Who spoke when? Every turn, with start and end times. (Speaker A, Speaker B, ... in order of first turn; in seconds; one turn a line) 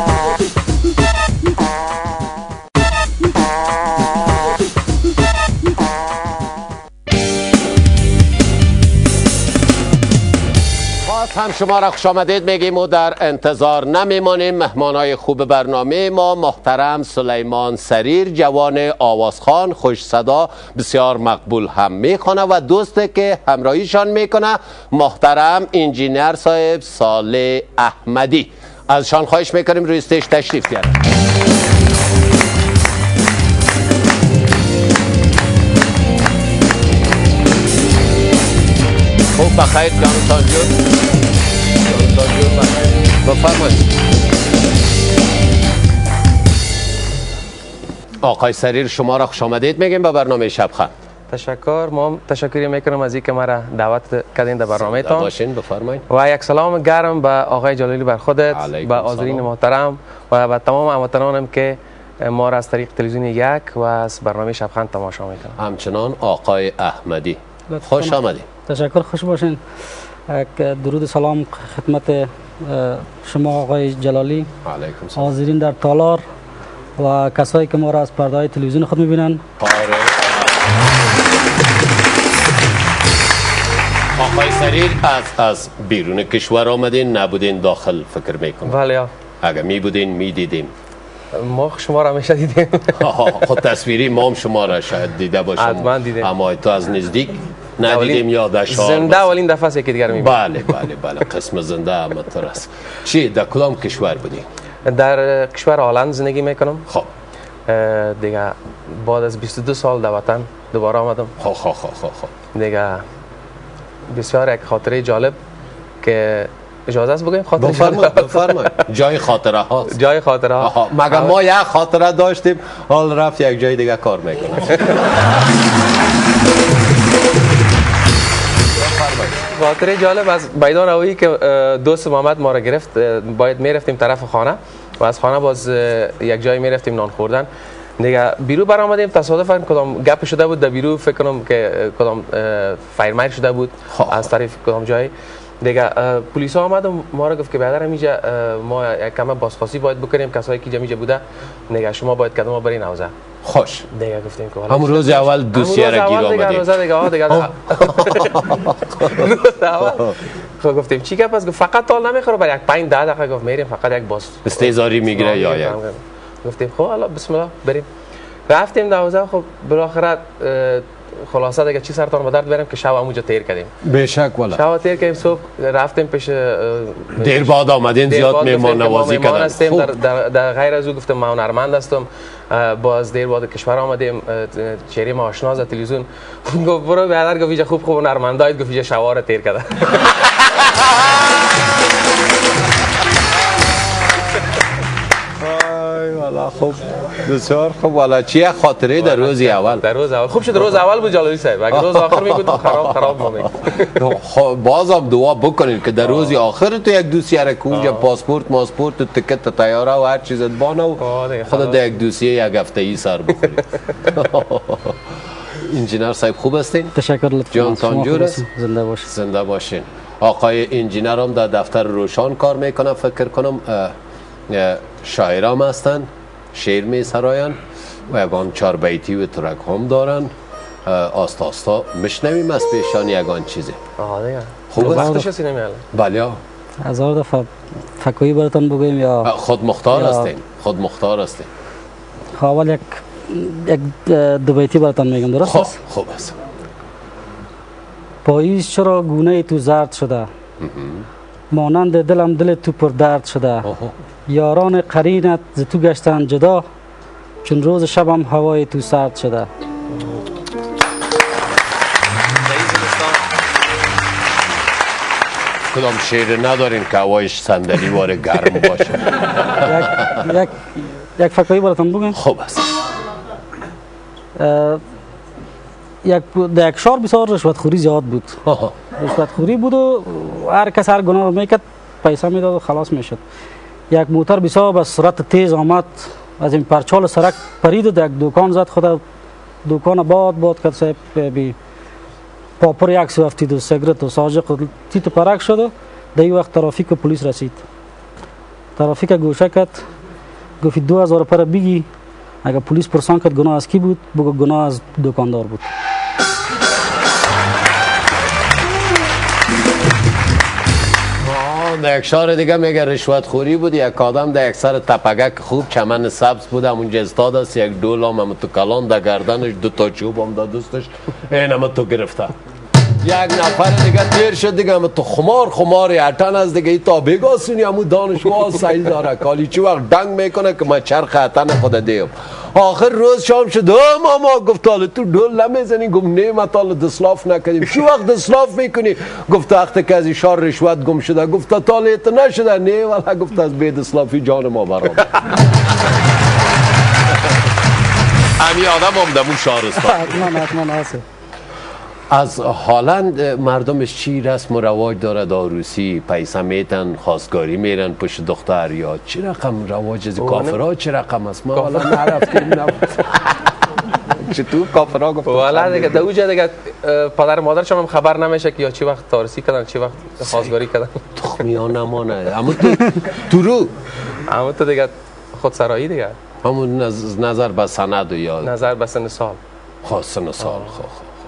Speaker A: 11.0-31.0
Speaker A: 39.3-40.8
Speaker A: 41.8-43.9
Speaker A: 48.2-50.9
Speaker B: 51.3-55.3
Speaker A: 54.8-56.0
Speaker B: 56.1-65.6
Speaker A: 58.5-59.5
Speaker A: 65.6-68.5
Speaker C: 67.7-69.6
Speaker C: 70.3-74.5
Speaker A: 74.6-75.3
Speaker C: 75.2-76.2
Speaker C: 77.0-79.4
Speaker A: 79.6-80.4
Speaker A: 84.2-88.8
Speaker B: 88.7-89.1
Speaker A: 89.4-90.7
Speaker B: 91.3-93.0
Speaker A: 93.0-99.3
Speaker B: 95.6-96.3
Speaker B: 97.9-100.5
Speaker A: 100.1-104.5
Speaker B: 104.9-106.9
Speaker B: 107.7-111.3
Speaker A: 111.4-112.3
Speaker B: 112.5-113.0
Speaker B: 114.1-115.4
Speaker B: 116.0-118.7
Speaker A: 117.6-120.0
Speaker B: 119.9-121.3
Speaker A: 120.6-124.9
Speaker A: 128.8-129.4
Speaker B: 129.5-153.1
Speaker A: 143.9-144.3
Speaker A: 153.4-153.9
Speaker B: 153.9-167.9
Speaker A: 154.7-156.8
Speaker A: 157.3-160.2
Speaker A: 164.4-165.8
Speaker B: 168.5-173.7
Speaker A: 173.8-174.6
Speaker B: 174.6-177.6
Speaker A: 177.2-179.9
Speaker B: 178.1-190.2
Speaker A: 190.6-191.3
Speaker A: 193.6-194.5
Speaker A: 195.4-199.8
Speaker B: 199.0-204.0
Speaker A: 201.7-215.0
Speaker B: 207.7-208.0
Speaker B: 211.0-211.9
Speaker A: 215.6-216.9
Speaker C: 216.9-219.1
Speaker A: 217.5-218.4
Speaker A: 219.1-223.9
Speaker A: 224.5-230.3
Speaker A: 230.9-233.8
Speaker B: 234.0-235.8
Speaker A: 234.7-235.3
Speaker A: 235.9-236.4
Speaker C: 236.8-239.3
Speaker A: 239.2-241.5
Speaker C: 239.9-240.3
Speaker C: 242.4-245.8
Speaker A: 245.4-246.4
Speaker C: 248.2-250.3
Speaker A: 250.6-251.1
Speaker C: 251.5-253.7
Speaker A: 253.7-253.9
Speaker C: 254.3-256.6
Speaker C: 257.4-259.5
Speaker B: 262.5-263.2
Speaker A: 265.7-270.2
Speaker C: 269.6-272.2
Speaker A: 272.2-272.7
Speaker C: 274.4-274.8
Speaker C: 276.0-278.4
Speaker A: 278.5-278.8
Speaker C: 279.0-283.2
Speaker C: 283.9-289.0
Speaker C: 289.6-291.6
Speaker C: 292.6-297.6
Speaker C: 298.8-299.8
Speaker C: 300.6-301.9
Speaker C: 302.4-305.7
Speaker A: 311.2-322.4
Speaker A: 323.0-345.4
Speaker A: 348.4-350.4
Speaker C: 349.8-351.0
Speaker A: 352.1-363.5
Speaker B: 360.2-360.6
Speaker B: 361.6-362.2
Speaker A: 364.2-366.1
Speaker B: 365.3-371.0
Speaker A: 370.2-370.5
Speaker A: 371.2-373.7
Speaker B: 374.3-376.2
Speaker A: 376.4-378.5
Speaker B: 378.4-379.4
Speaker A: 379.8-381.1
Speaker B: 380.4-380.7